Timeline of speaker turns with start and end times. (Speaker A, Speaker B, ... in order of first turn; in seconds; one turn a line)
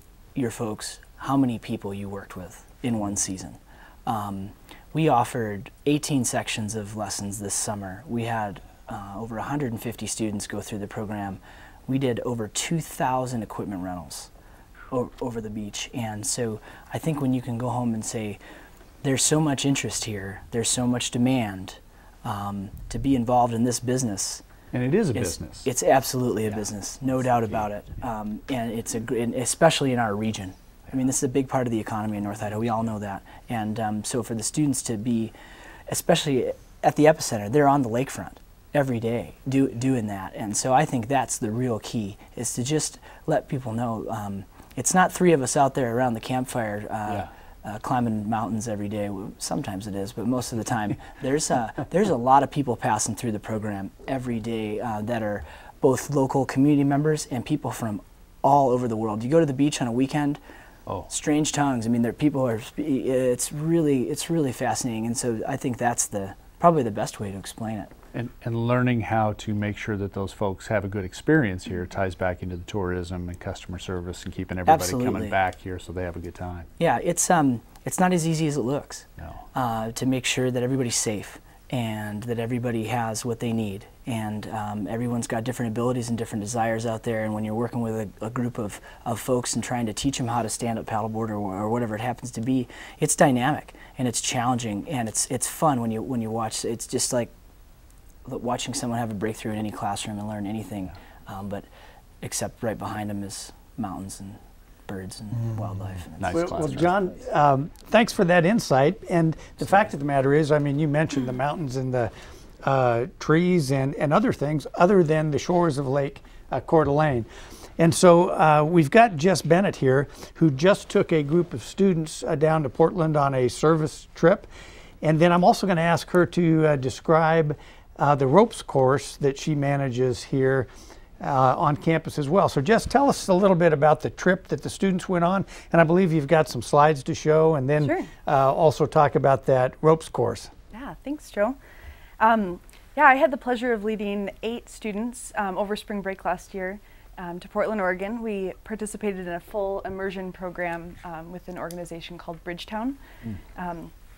Speaker A: 0.3-14.3
Speaker A: 14.9-18.4
Speaker A: 19.0-24.4
Speaker B: 24.7-25.7
Speaker A: 25.1-35.3
Speaker A: 35.9-60.4
Speaker A: 61.1-67.9
Speaker B: 68.1-76.7
Speaker A: 74.7-75.4
Speaker A: 76.8-97.3
Speaker B: 79.2-79.4
Speaker A: 98.2-101.7
Speaker A: 102.2-106.7
Speaker B: 106.2-106.9
Speaker C: 106.3-112.1
Speaker C: 112.6-124.5
Speaker C: 125.0-130.7
Speaker C: 131.2-140.5
Speaker D: 137.8-138.1
Speaker D: 140.7-141.6
Speaker D: 142.2-153.0
Speaker D: 153.5-153.9